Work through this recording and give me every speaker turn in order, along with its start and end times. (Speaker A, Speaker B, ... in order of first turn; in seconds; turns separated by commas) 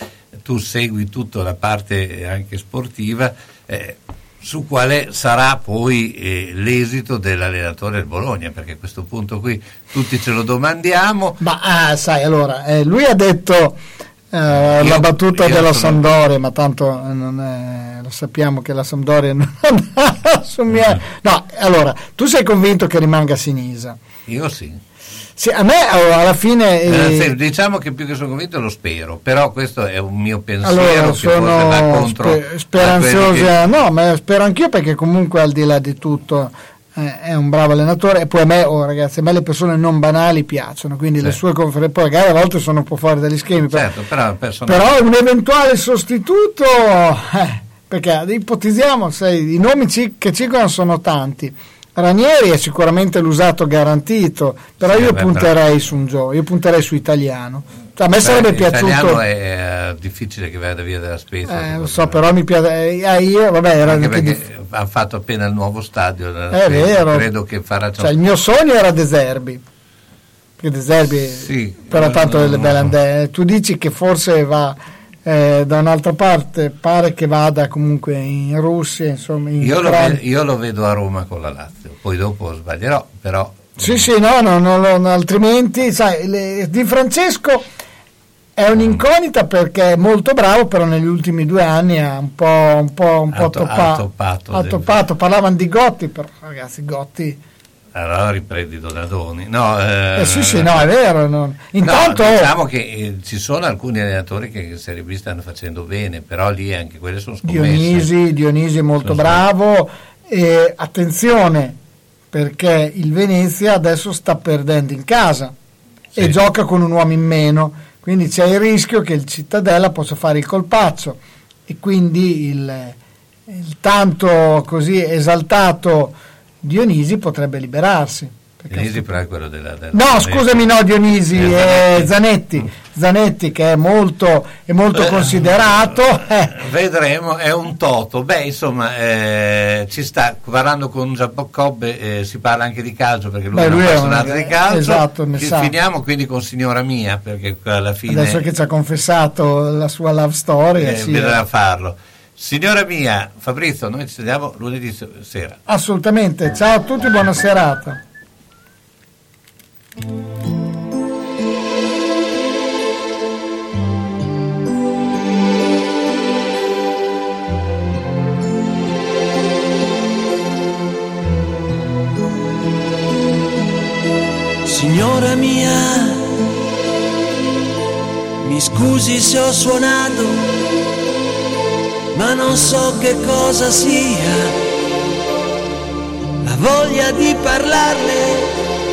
Speaker A: 0.4-11.4, Speaker B: 11.4-13.8, Speaker B: 14.3-24.0, Speaker A: 14.5-16.1, Speaker A: 24.3-24.8, Speaker B: 25.4-27.3, Speaker A: 26.9-33.5, Speaker B: 30.6-43.9, Speaker A: 43.6-45.0, Speaker B: 44.7-59.2, Speaker A: 54.8-55.5, Speaker A: 58.2-62.2, Speaker B: 61.5-64.4, Speaker A: 63.8-68.1, Speaker B: 66.5-67.3, Speaker B: 68.0-69.6, Speaker B: 70.6-80.2, Speaker A: 71.3-72.9, Speaker A: 79.6-84.0, Speaker B: 83.8-87.7, Speaker B: 88.6-97.4, Speaker A: 88.8-89.0, Speaker A: 93.3-94.9, Speaker A: 98.0-100.9, Speaker B: 100.2-102.5, Speaker A: 101.8-108.1, Speaker B: 107.4-111.8, Speaker A: 109.0-109.4, Speaker B: 112.3-115.5, Speaker B: 116.2-129.1, Speaker A: 128.7-130.6, Speaker B: 129.9-136.6, Speaker A: 131.3-132.1, Speaker A: 134.9-148.4, Speaker B: 143.5-145.7, Speaker B: 148.1-151.4, Speaker A: 150.8-155.6, Speaker B: 155.7-158.0, Speaker C: 174.7-176.4, Speaker C: 178.4-180.4, Speaker C: 182.1-184.6, Speaker C: 186.4-188.5